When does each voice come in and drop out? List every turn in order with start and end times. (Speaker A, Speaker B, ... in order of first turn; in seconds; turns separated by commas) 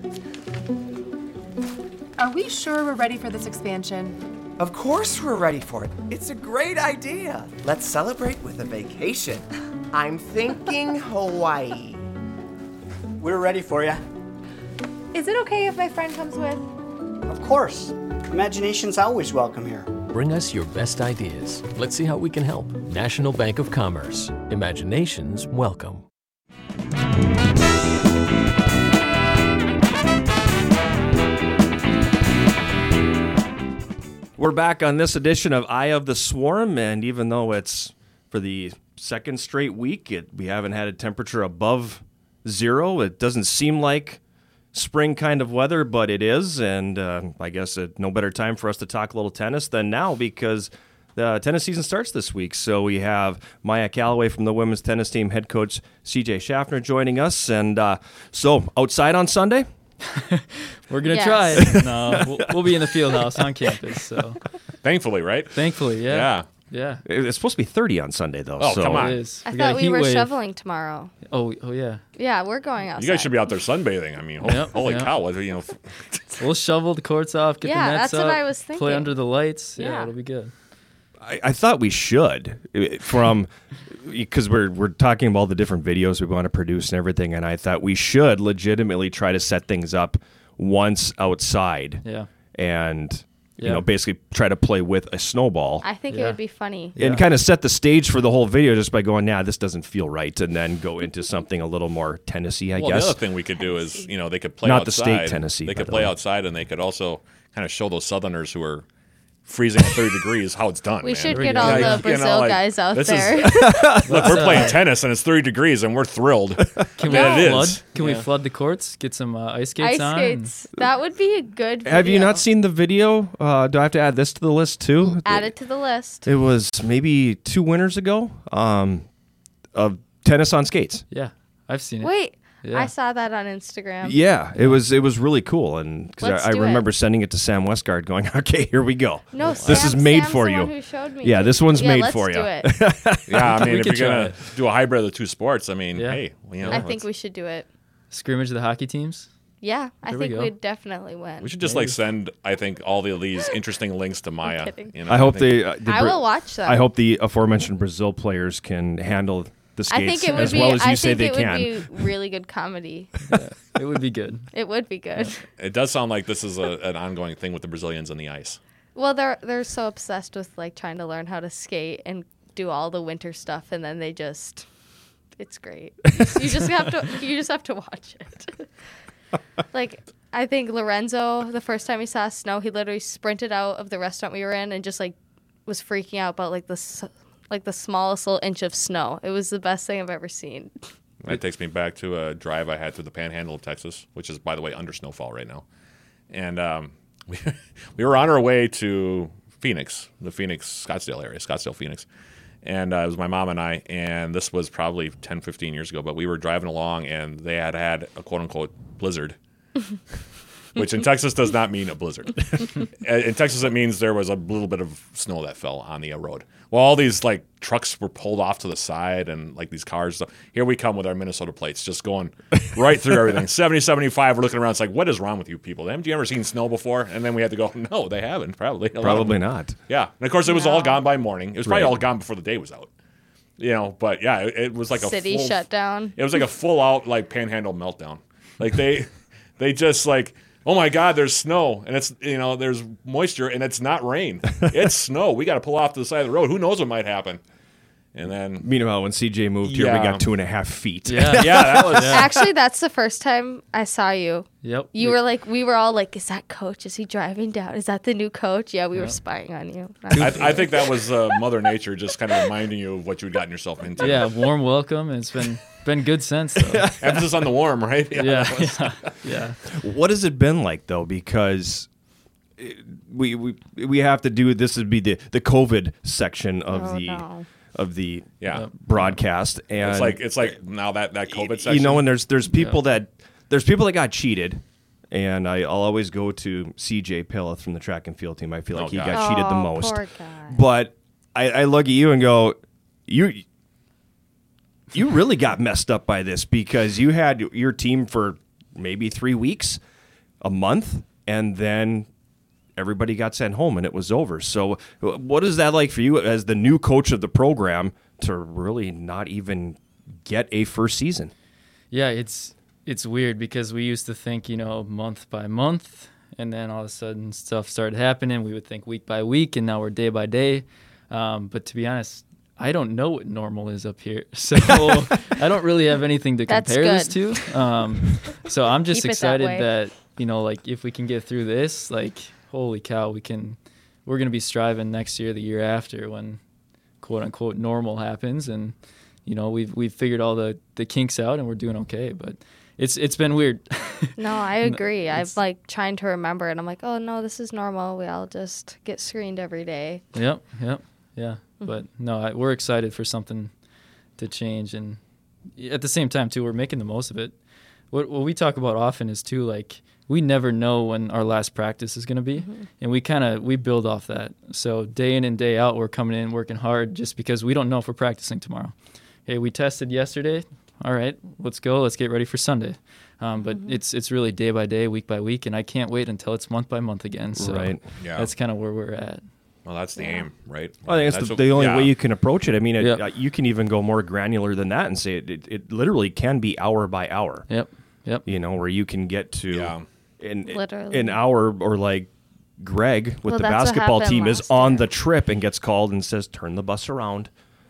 Speaker A: 2.2-4.2, Speaker B: 4.6-12.1, Speaker C: 13.2-14.0, Speaker A: 15.1-16.7, Speaker C: 17.3-19.9, Speaker D: 20.1-26.1, Speaker E: 34.4-44.2, Speaker E: 44.7-59.7, Speaker F: 60.1-64.4, Speaker G: 61.1-61.8, Speaker E: 61.6-63.4, Speaker H: 64.8-66.5, Speaker F: 65.5-67.0, Speaker E: 67.0-69.1, Speaker H: 68.6-69.2, Speaker F: 68.9-70.3, Speaker G: 69.5-71.1, Speaker F: 71.3-72.0, Speaker G: 72.2-73.4, Speaker H: 73.0-76.4, Speaker F: 74.4-75.1, Speaker F: 76.4-80.5, Speaker G: 77.6-79.2, Speaker G: 79.8-80.1, Speaker E: 81.2-92.0, Speaker E: 92.5-95.9, Speaker F: 93.6-93.8, Speaker G: 95.8-97.0, Speaker F: 96.1-96.4, Speaker F: 97.0-97.3, Speaker E: 97.0-103.2, Speaker H: 102.8-108.9, Speaker G: 103.7-104.0, Speaker E: 104.6-106.1, Speaker H: 109.5-118.3, Speaker G: 111.0-114.0, Speaker F: 111.3-112.1, Speaker E: 113.5-114.5, Speaker F: 114.1-114.8, Speaker F: 117.0-120.5, Speaker G: 117.1-117.6, Speaker G: 119.8-122.5, Speaker E: 121.8-125.5, Speaker G: 125.2-126.3, Speaker E: 126.2-129.1, Speaker E: 129.7-131.1, Speaker F: 131.1-132.1, Speaker G: 132.0-134.2, Speaker F: 132.6-132.9, Speaker E: 134.0-143.5, Speaker G: 136.2-136.8, Speaker G: 139.3-142.7, Speaker F: 139.4-139.8, Speaker H: 143.3-147.0, Speaker F: 143.4-144.4, Speaker F: 145.9-146.8, Speaker G: 146.7-147.7, Speaker F: 148.1-149.3, Speaker G: 149.6-151.5, Speaker F: 150.1-150.5, Speaker H: 151.4-155.7, Speaker F: 151.6-152.0, Speaker G: 154.4-154.9, Speaker E: 155.1-162.1, Speaker G: 155.8-156.9, Speaker G: 159.9-163.1, Speaker F: 160.3-160.8, Speaker F: 163.3-164.5, Speaker G: 164.5-165.4, Speaker H: 165.6-168.6, Speaker G: 168.9-174.7, Speaker G: 175.4-178.7, Speaker G: 179.7-185.2, Speaker G: 185.7-190.7, Speaker H: 191.2-195.6, Speaker H: 196.3-202.1, Speaker H: 202.6-209.4, Speaker H: 210.8-232.9, Speaker E: 229.0-229.8, Speaker G: 230.5-231.1, Speaker E: 231.7-232.0, Speaker H: 233.6-235.6, Speaker G: 235.0-236.3, Speaker H: 236.2-247.4, Speaker H: 248.1-248.7, Speaker E: 248.6-252.2, Speaker H: 249.7-250.3, Speaker F: 251.1-252.2, Speaker H: 251.3-252.2, Speaker G: 252.1-261.1, Speaker F: 254.6-255.2, Speaker F: 260.1-260.6, Speaker H: 260.1-264.4, Speaker F: 264.0-267.0, Speaker E: 266.8-267.2, Speaker H: 267.0-269.1, Speaker F: 268.1-269.6, Speaker E: 269.7-271.9, Speaker E: 272.6-280.5, Speaker G: 276.7-277.5, Speaker H: 278.4-278.7, Speaker H: 279.8-282.1, Speaker E: 281.3-293.4, Speaker F: 282.5-282.8, Speaker H: 288.7-289.2, Speaker G: 289.1-290.6, Speaker E: 294.9-299.8, Speaker E: 300.4-302.1, Speaker E: 302.8-311.3, Speaker F: 311.9-336.4, Speaker G: 326.5-327.7, Speaker G: 328.9-329.7, Speaker F: 337.0-338.7, Speaker F: 339.3-345.3, Speaker G: 344.2-350.0, Speaker F: 350.1-353.5, Speaker F: 354.2-355.0, Speaker F: 355.6-357.4, Speaker F: 357.9-368.7, Speaker F: 369.3-379.2, Speaker G: 373.4-373.7, Speaker E: 377.4-377.8, Speaker H: 378.0-378.3, Speaker H: 379.7-381.9, Speaker G: 380.0-380.3, Speaker E: 380.9-387.5, Speaker F: 387.5-388.3, Speaker E: 388.2-397.3, Speaker H: 389.5-389.9, Speaker G: 390.5-391.2, Speaker G: 393.3-394.9